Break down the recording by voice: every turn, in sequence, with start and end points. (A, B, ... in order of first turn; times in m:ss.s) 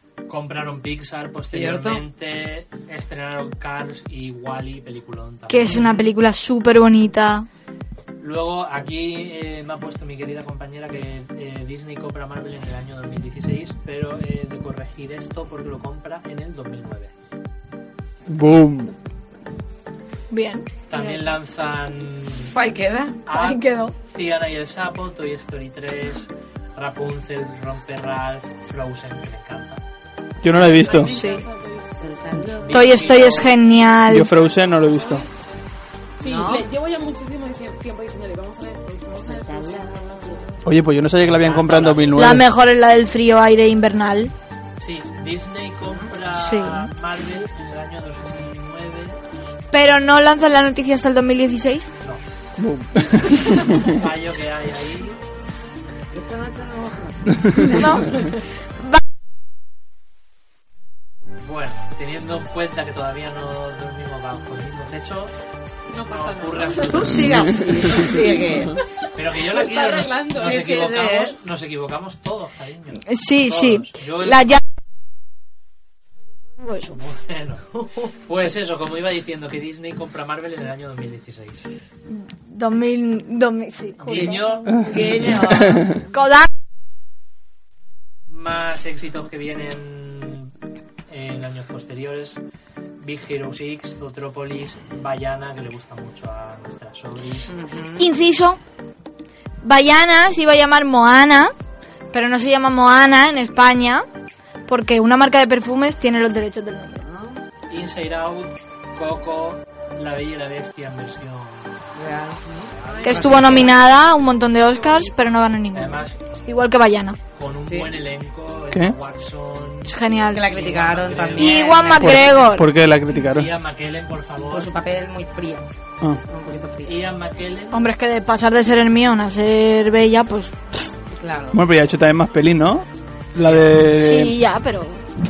0:00.3-0:06.0 A
0:01.5-0:02.0 B
0:05.5-0:07.5 C
0:05.7-0:06.0 B
0:08.2-0:17.1 A
0:18.3-0:19.0 D
0:20.3-0:21.2 C
0:20.9-0:22.6 A
0:22.5-0:23.2 B
0:23.3-0:29.8 A
0:23.3-0:24.0 C
0:30.4-0:31.2 D
0:30.5-0:30.9 A
0:30.5-0:33.3 E
0:31.0-0:31.4 C
0:32.0-0:33.0 B
0:32.6-0:33.6 A
0:32.7-0:34.3 C
0:34.1-0:35.3 D
0:34.3-0:35.3 E
0:36.2-0:40.5 E
0:36.2-0:36.7 B
0:39.2-0:40.6 B
0:40.6-0:42.5 D
0:41.2-0:42.4 A
0:42.2-0:44.3 C
0:44.8-0:49.2 A
0:45.9-0:46.1 B
0:46.3-0:46.9 C
0:49.7-0:51.9 C
0:52.6-0:53.8 D
0:53.7-0:55.2 A
0:56.1-0:58.4 B
0:57.7-0:58.2 C
1:01.4-1:05.3 A
1:05.9-1:07.2 E
1:06.1-1:07.3 A
1:06.8-1:08.8 B
1:07.9-1:08.4 E
1:09.2-1:14.4 A
1:09.4-1:10.7 E
1:10.4-1:11.4 B
1:13.1-1:14.6 C
1:16.6-1:17.0 C
1:16.9-1:21.7 A
1:17.8-1:18.1 B
1:22.1-1:24.9 C
1:24.0-1:25.6 A
1:24.1-1:25.8 B
1:24.7-1:26.0 D
1:25.9-1:26.5 C
1:28.3-1:30.5 A
1:31.1-1:32.4 A
1:33.0-1:37.5 A
1:37.5-1:38.1 B
1:38.0-1:38.6 C
1:39.6-1:41.5 C
1:42.1-1:44.1 C
1:44.7-1:47.0 C
1:47.0-1:47.4 B
1:47.7-1:51.9 A
1:52.0-1:53.8 B
1:52.6-1:53.7 A
1:52.9-1:53.8 E
1:53.0-1:57.2 C
1:54.5-1:55.4 E
1:55.7-1:56.2 A
1:57.3-2:02.1 A
1:59.9-2:00.4 C
2:00.3-2:02.5 B
2:01.4-2:02.7 C
2:02.0-2:03.5 D
2:03.2-2:04.7 A
2:04.5-2:05.7 B
2:06.3-2:07.0 B
2:06.8-2:07.8 A
2:07.7-2:10.6 C
2:11.2-2:11.6 B
2:11.5-2:14.4 D
2:13.4-2:13.8 A
2:13.9-2:15.0 C